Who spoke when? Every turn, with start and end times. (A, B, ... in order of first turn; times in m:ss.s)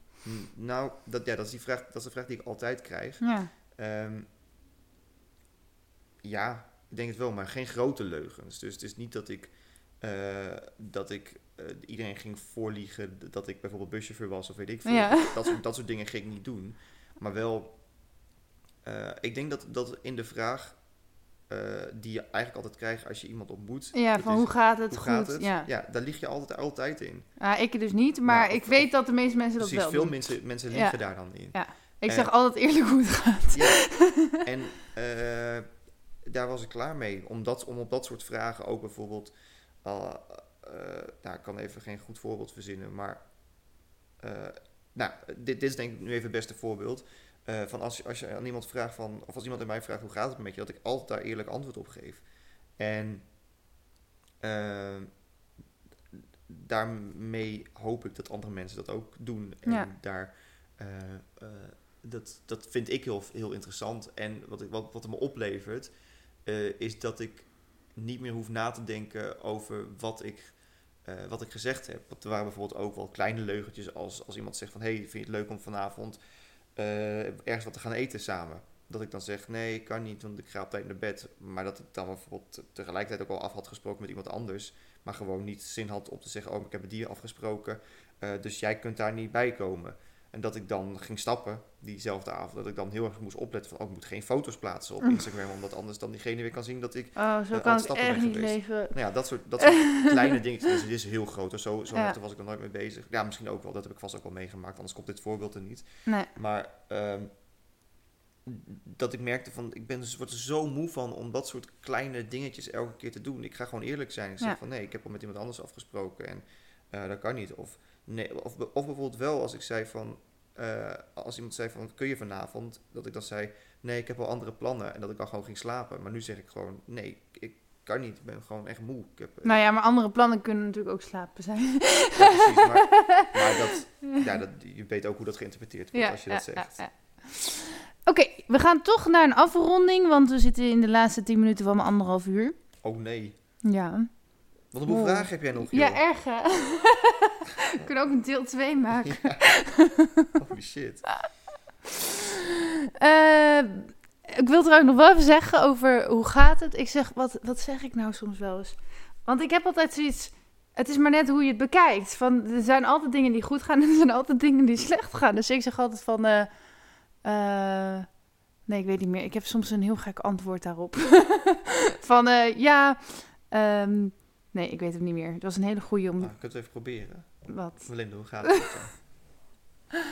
0:00.2-0:04.3 A
0:03.2-0:03.5 B
0:06.2-0:17.8 A
0:14.8-0:15.5 B
0:18.8-0:20.8 A
0:21.5-0:27.3 A
0:23.9-0:25.7 B
0:27.4-0:31.0 B
0:28.2-0:28.9 A
0:29.5-0:32.3 A
0:31.5-0:34.4 B
0:33.5-0:35.7 A
0:36.2-0:43.5 A
0:44.2-0:53.3 A
0:54.4-0:55.2 A
0:56.1-1:16.2 A
0:59.6-0:59.9 B
1:16.7-1:47.3 A
1:37.2-1:39.0 B
1:39.6-1:40.3 B
1:48.4-2:09.6 A
2:09.4-2:13.5 B
2:12.2-2:16.8 A
2:15.9-2:22.5 B
2:22.8-2:23.3 A
2:23.6-2:30.4 B
2:24.7-2:26.0 A
2:29.1-2:29.4 A
2:30.4-2:31.2 A
2:33.0-2:48.1 B
2:48.6-2:56.3 B
2:56.2-2:59.1 A
2:57.5-2:58.6 B